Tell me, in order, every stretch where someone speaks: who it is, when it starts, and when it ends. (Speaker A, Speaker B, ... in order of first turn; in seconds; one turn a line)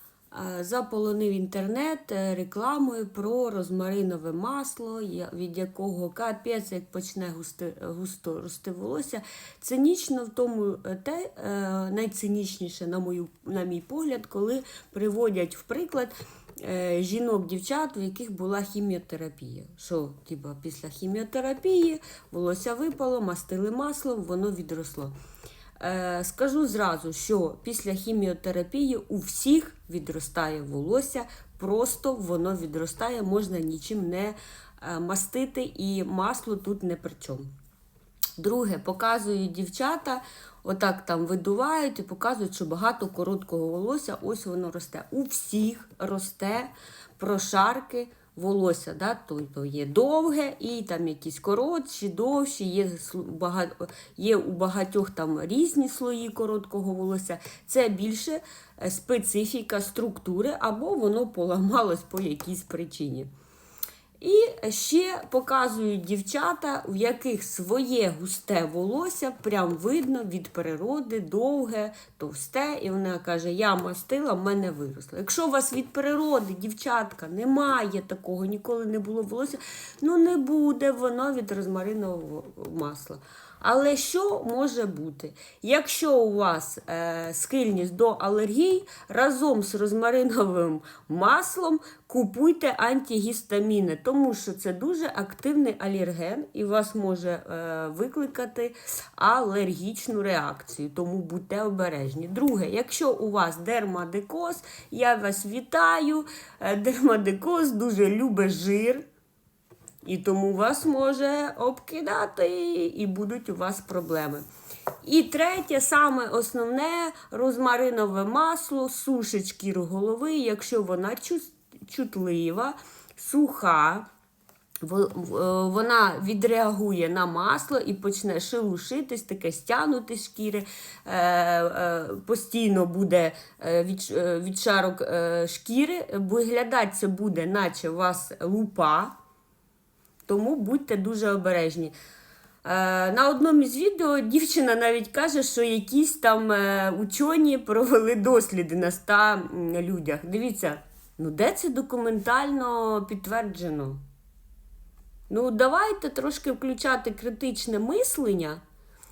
Speaker A: 0.3-25.1
Speaker A: 25.8-37.5
Speaker A: 38.4-63.3
Speaker A: 64.2-109.0
Speaker A: 110.0-114.5
Speaker A: 115.0-124.1
Speaker A: 124.8-139.2
Speaker A: 140.3-141.9
Speaker A: 142.6-154.0
Speaker A: 155.3-158.6